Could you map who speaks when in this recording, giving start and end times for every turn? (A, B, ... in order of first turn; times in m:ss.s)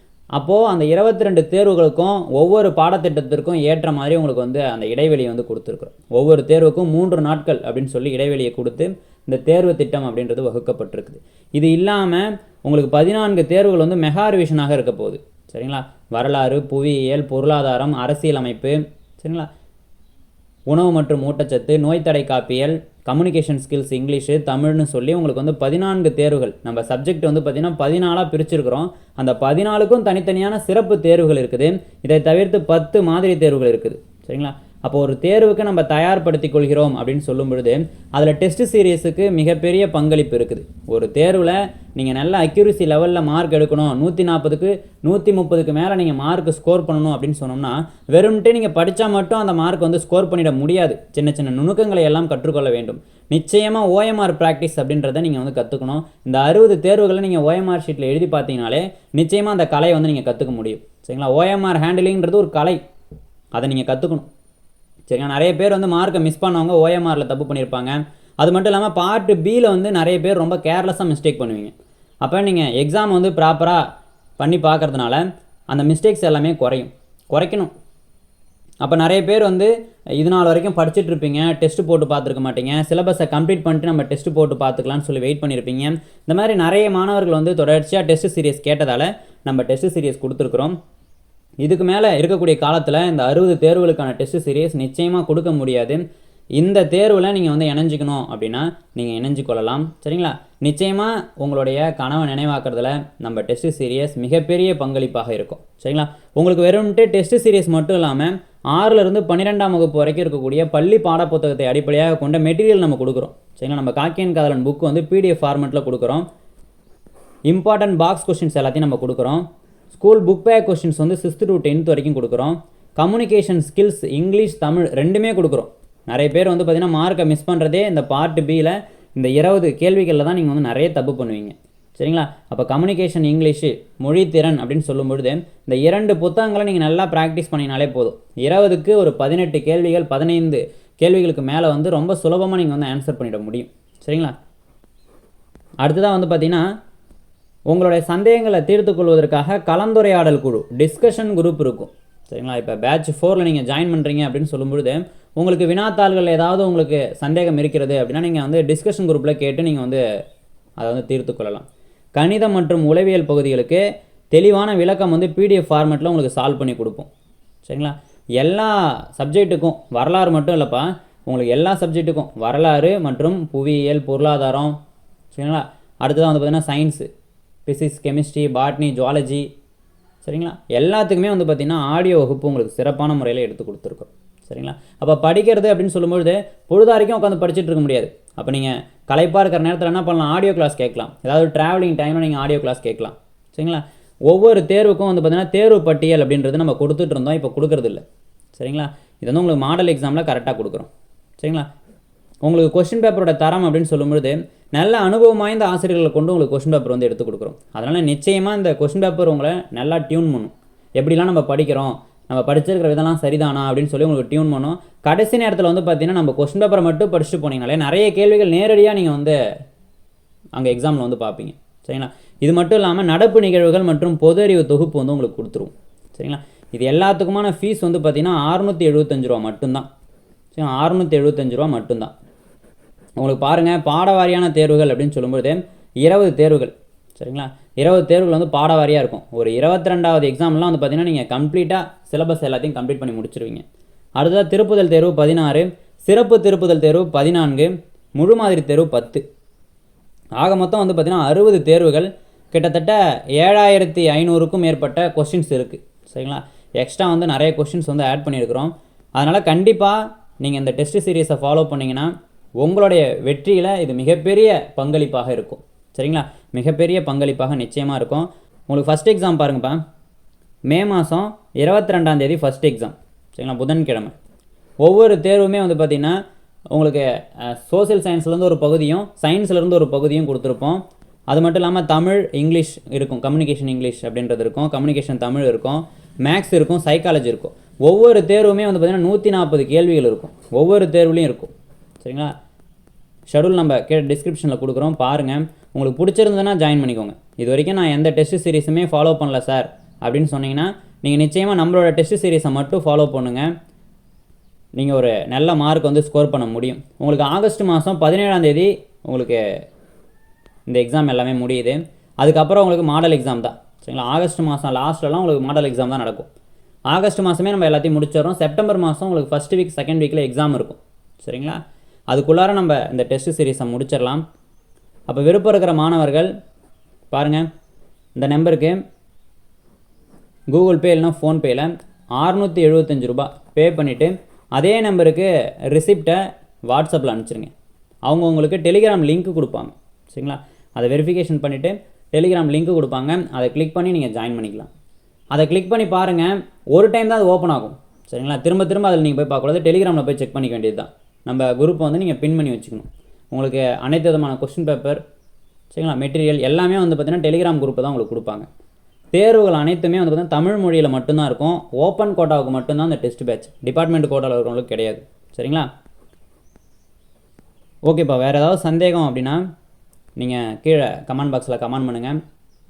0:00.4-0:19.5 A
0:20.7-1:02.8 A
1:03.5-1:04.3 A
1:05.1-1:13.8 A
1:14.4-1:17.7 A
1:18.8-1:30.8 A
1:31.6-1:36.0 A
1:36.6-1:56.2 A
1:57.5-2:24.3 A
2:25.8-2:26.6 A
2:27.7-2:40.0 A
2:40.8-2:47.1 A
2:47.6-2:54.8 A
2:55.3-2:57.1 A
2:57.7-2:59.5 A
3:00.2-3:18.0 A
3:18.5-3:20.9 A
3:21.4-3:21.7 A
3:22.4-3:39.4 A
3:40.5-3:49.9 A
3:50.5-3:52.1 A
3:53.2-4:03.6 A
4:04.2-4:09.2 A
4:10.4-4:29.8 A
4:30.7-4:34.1 A
4:34.8-4:36.2 A
4:36.7-4:52.3 A
4:53.3-5:03.5 A
5:04.8-5:09.4 A
5:10.7-5:16.3 A
5:16.9-5:24.2 A
5:25.1-5:26.3 A
5:27.1-5:27.5 A
5:28.2-5:28.8 A
5:30.5-5:37.5 A
5:38.0-5:44.7 A
5:45.3-5:55.0 A
5:55.7-5:58.5 A
5:59.1-6:05.7 A
6:07.9-6:09.4 A
6:10.2-6:12.2 A